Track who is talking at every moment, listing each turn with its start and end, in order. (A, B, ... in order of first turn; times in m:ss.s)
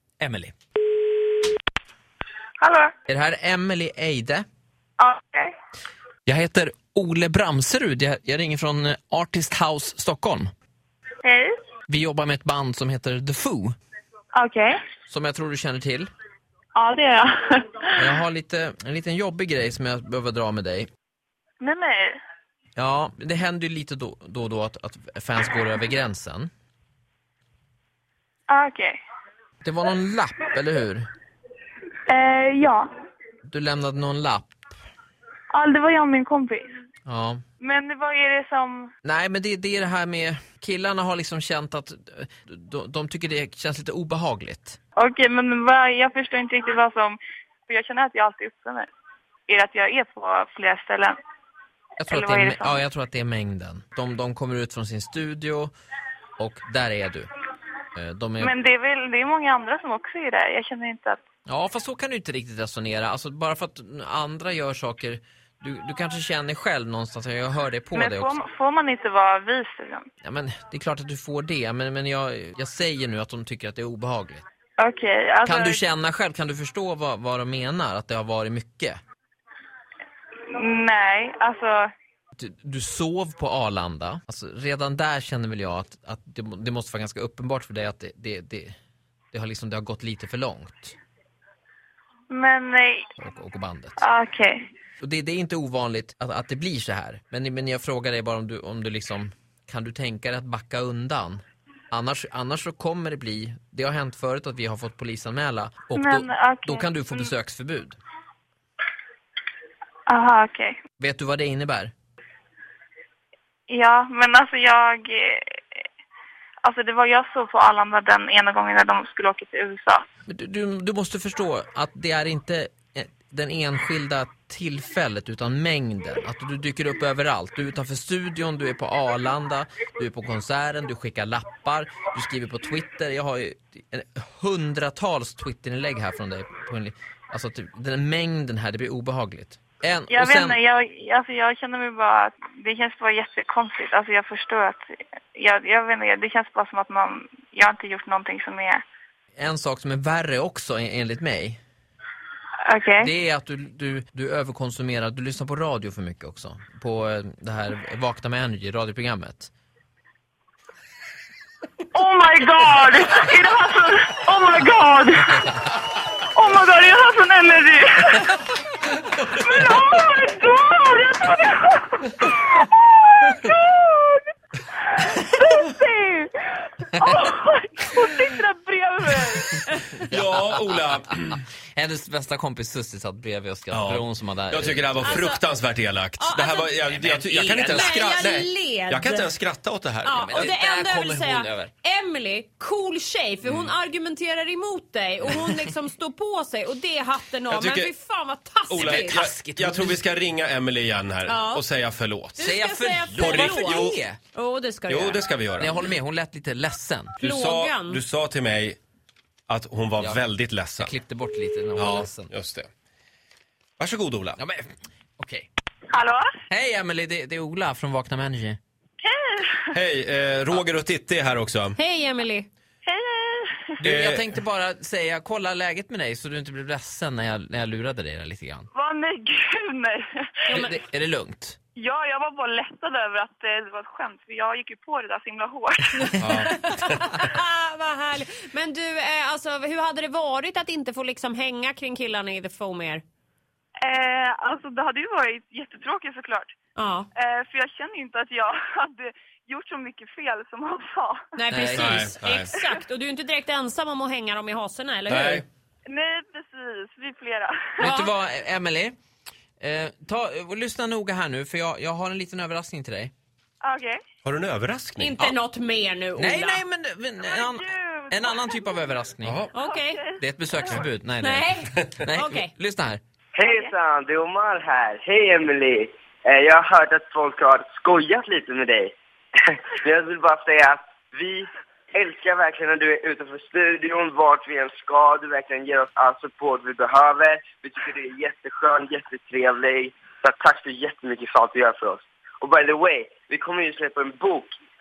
0:00.2-0:00.5 A
0:02.6-0:02.9 B
0:03.1-0:04.4 A
0:05.0-0:05.5 B
0:06.2-0:10.5 A
0:11.2-0:11.6 B
0:11.9-0:13.8 A
0:14.3-0:14.8 B
0:15.1-0:16.1 A
0:16.8-0:18.0 B
0:18.0-0:20.9 A
0:21.6-0:22.2 B
0:22.8-0:26.5 A
0:28.5-0:29.0 B
0:29.6-0:31.1 A
0:32.1-0:32.9 B
0:33.5-0:34.5 A
0:35.5-0:36.6 B
0:37.0-0:37.4 A
0:37.6-0:38.9 B
0:39.0-0:44.8 A
0:45.0-0:48.9 B
0:49.5-0:51.2 B
0:52.0-0:55.7 A
0:52.1-0:52.8 B
0:56.4-0:57.3 A
0:57.9-0:58.5 A
0:58.4-1:01.2 B
1:01.5-1:08.4 A
1:07.9-1:10.0 B
1:10.2-1:14.4 A
1:14.8-1:15.8 B
1:15.4-1:19.0 A
1:20.5-1:21.9 B
1:22.4-1:28.8 A
1:29.3-1:31.0 A
1:32.3-1:33.1 B
1:33.2-1:34.0 A
1:34.0-1:34.6 B
1:35.0-1:48.0 A
1:45.9-1:47.3 B
1:50.1-1:50.8 B
1:51.0-1:51.9 A
1:53.7-1:55.6 B
1:56.6-2:00.0 B
2:00.3-2:20.6 A
2:20.1-2:28.8 B
2:29.4-2:31.6 A
2:32.6-2:33.1 B
2:33.0-2:39.5 A
2:41.9-2:45.5 B
2:46.3-2:48.3 B
2:49.2-2:59.6 B
3:00.1-3:01.4 C
3:00.1-3:00.5 A
3:01.7-3:05.2 A
3:03.7-3:10.2 C
3:05.0-3:05.4 D
3:06.2-3:09.3 D
3:07.0-3:08.0 A
3:10.0-3:19.2 D
3:10.2-3:11.7 A
3:13.4-3:13.7 C
3:17.5-3:17.9 C
3:18.7-3:22.4 C
3:18.8-3:20.0 A
3:21.2-3:21.6 D
3:22.4-3:25.2 D
3:22.4-3:24.2 A
3:23.1-3:24.0 C
3:24.8-3:25.8 C
3:25.6-3:27.2 A
3:27.2-3:28.0 D
3:27.2-3:28.8 C
3:29.5-3:30.9 C
3:30.0-3:30.2 A
3:30.8-3:32.3 A
3:31.8-3:32.7 C
3:33.8-3:34.4 C
3:34.4-3:34.6 A
3:35.2-3:35.5 A
3:35.9-3:36.2 B
3:36.5-3:38.6 A
3:39.0-3:39.7 B
3:39.7-3:41.8 C
3:41.8-3:42.5 D
3:42.8-3:43.8 B
3:43.8-3:48.7 A
3:43.8-3:44.2 C
3:48.7-3:50.4 B
3:50.5-3:51.6 A
3:51.8-3:56.2 B
3:56.2-3:56.5 C
3:56.4-4:03.0 D
4:03.8-4:06.5 B
4:06.8-4:07.1 D
4:07.1-4:11.2 B
4:11.4-4:15.4 D
4:11.5-4:12.0 A
4:11.7-4:12.5 C
4:15.1-4:15.4 C
4:15.9-4:18.0 B
4:17.8-4:19.0 A
4:19.6-4:23.1 A
4:23.6-4:24.0 B
4:24.2-4:25.1 C
4:25.0-4:26.6 D
4:26.2-4:29.4 A
4:27.3-4:28.6 B
4:29.2-4:29.5 C
4:29.5-4:30.0 D
4:29.6-4:30.2 B
4:30.2-4:33.0 A
4:31.2-4:32.5 D
4:33.3-4:38.9 E
4:33.4-4:33.7 B
4:39.4-4:54.5 E